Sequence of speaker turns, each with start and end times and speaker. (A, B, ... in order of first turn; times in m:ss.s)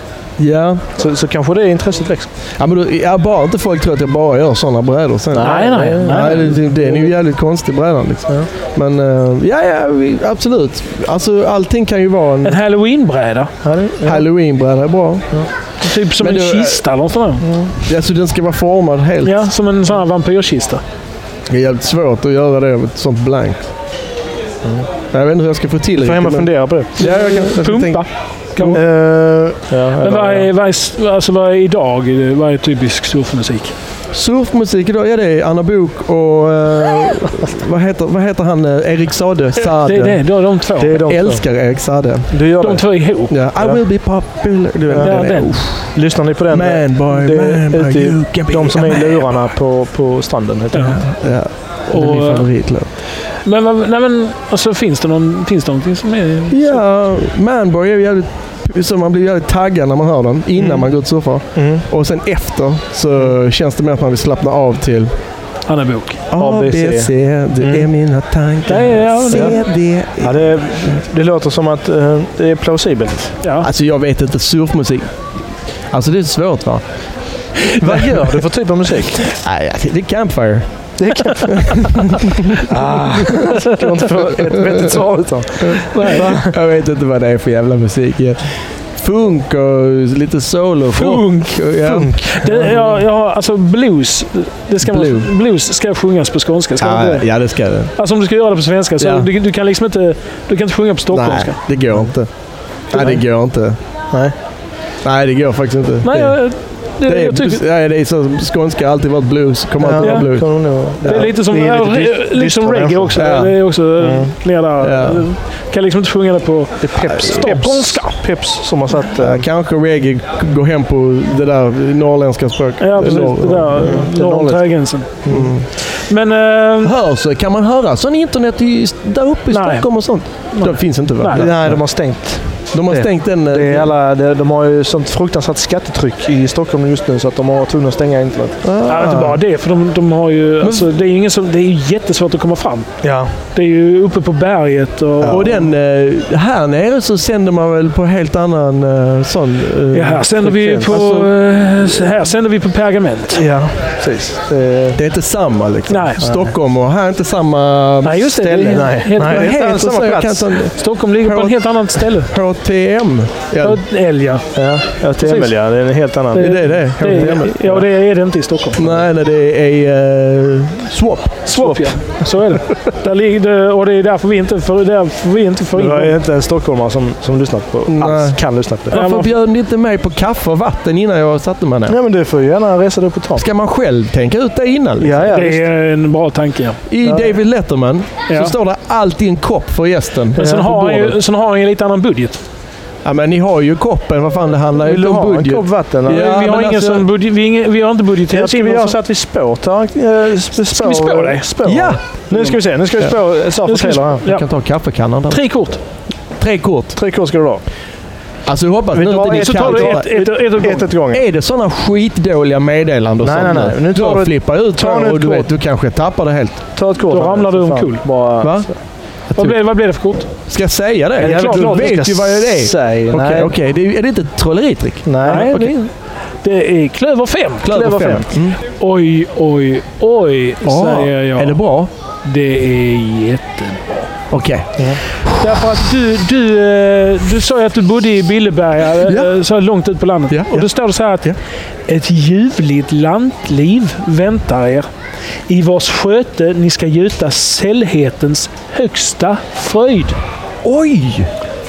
0:00.4-0:00.9 A
0:01.0-0:02.3 B
0:02.6-0:12.6 A
0:05.3-0:07.1 B
0:05.4-0:06.6 C
0:12.4-0:13.5 C
0:13.6-0:14.3 B
0:14.0-0:15.4 A
0:15.8-0:17.4 C
0:16.2-0:17.1 A
0:17.4-0:17.7 B
0:17.8-0:19.5 A
0:19.2-0:20.8 C
0:21.5-0:23.7 A
0:25.1-0:28.0 A
0:26.0-0:27.1 B
0:27.0-0:28.8 C
0:28.6-0:30.5 B
0:30.0-0:33.7 C
0:34.1-0:42.5 A
0:39.8-0:41.0 C
0:40.8-0:41.4 B
0:42.3-0:43.8 B
0:42.6-0:43.3 C
0:43.3-0:45.9 A
0:44.9-0:51.1 B
0:45.0-0:45.8 C
0:46.5-0:49.4 A
0:50.7-0:51.0 C
0:50.9-0:52.9 A
0:51.9-0:52.4 C
0:53.4-0:56.8 C
0:56.5-1:05.1 A
1:00.6-1:00.9 B
1:01.5-1:01.8 B
1:05.7-1:06.2 C
1:06.3-1:10.5 A
1:06.3-1:07.9 B
1:08.7-1:09.6 C
1:09.3-1:09.6 B
1:10.2-1:13.4 B
1:13.4-1:13.7 C
1:13.6-1:15.2 A
1:15.9-1:17.0 A
1:17.8-1:19.2 B
1:17.8-1:18.4 A
1:19.2-1:20.9 A
1:21.0-1:22.0 B
1:21.5-1:22.3 A
1:22.6-1:26.5 B
1:24.3-1:25.0 A
1:25.6-1:33.0 A
1:25.9-1:26.3 C
1:30.9-1:37.3 C
1:31.8-1:32.4 B
1:34.8-1:35.3 A
1:36.8-1:37.9 A
1:38.0-1:41.6 C
1:39.0-1:39.3 A
1:41.1-1:42.3 A
1:41.9-1:42.1 B
1:42.9-1:43.8 A
1:42.9-1:43.2 B
1:45.0-1:51.3 A
1:46.0-1:47.6 C
1:49.8-1:53.2 B
1:50.0-1:58.2 C
1:53.1-1:53.8 A
1:54.0-1:54.3 B
1:54.8-1:55.2 A
1:56.8-1:59.4 B
1:59.2-2:04.0 A
2:02.8-2:06.9 C
2:03.8-2:05.5 B
2:05.2-2:05.7 A
2:06.8-2:13.9 A
2:09.5-2:11.5 C
2:11.3-2:18.6 B
2:18.6-2:19.4 A
2:18.8-2:22.9 C
2:20.6-2:20.9 A
2:23.0-2:23.3 B
2:23.5-2:25.5 C
2:25.2-2:31.3 A
2:25.2-2:25.5 B
2:29.9-2:33.4 C
2:30.4-2:31.0 B
2:33.3-2:35.0 B
2:34.9-2:43.8 A
2:35.9-2:36.2 C
2:36.2-2:36.5 B
2:38.0-2:39.6 C
2:38.7-2:40.7 B
2:40.7-2:42.3 C
2:43.6-2:44.4 C
2:44.5-2:47.4 B
2:45.2-2:45.5 C
2:46.3-2:48.8 C
2:46.4-2:47.8 A
2:48.7-2:51.5 A
2:51.4-2:56.1 C
2:51.5-2:52.2 B
2:55.7-2:59.0 B
2:57.9-3:02.0 A
2:58.9-2:59.3 C
3:01.9-3:03.4 B
3:03.3-3:05.3 A
3:05.0-3:05.7 B
3:05.3-3:06.8 C
3:06.9-3:11.2 A
3:07.0-3:07.4 B
3:08.3-3:08.5 C
3:10.3-3:12.4 C
3:13.0-3:17.1 A
3:14.8-3:16.4 B
3:16.0-3:19.0 C
3:18.3-3:24.2 B
3:20.6-3:21.5 C
3:21.6-3:22.2 A
3:22.3-3:22.6 C
3:23.6-3:24.4 C
3:24.2-3:25.6 A
3:25.3-3:25.8 C
3:26.3-3:27.0 A
3:26.9-3:27.6 B
3:28.4-3:30.2 A
3:28.9-3:31.2 B
3:29.2-3:31.0 C
3:31.1-3:36.7 A
3:33.2-3:35.5 B
3:36.7-3:38.8 B
3:37.0-3:38.0 C
3:38.4-3:38.7 A
3:39.3-3:39.6 A
3:39.4-3:40.3 C
3:40.4-3:45.7 A
3:41.2-3:42.1 C
3:41.2-3:43.5 B
3:45.0-3:45.5 B
3:45.2-3:45.9 C
3:46.4-3:47.7 C
3:47.6-3:48.6 A
3:47.7-3:48.4 B
3:48.7-3:51.6 C
3:50.6-3:51.9 A
3:52.2-3:54.1 C
3:54.3-3:55.8 A
3:55.4-4:01.3 C
3:59.0-3:59.3 A
4:00.3-4:01.4 A
4:01.9-4:04.9 C
4:05.5-4:10.2 C
4:10.6-4:11.3 A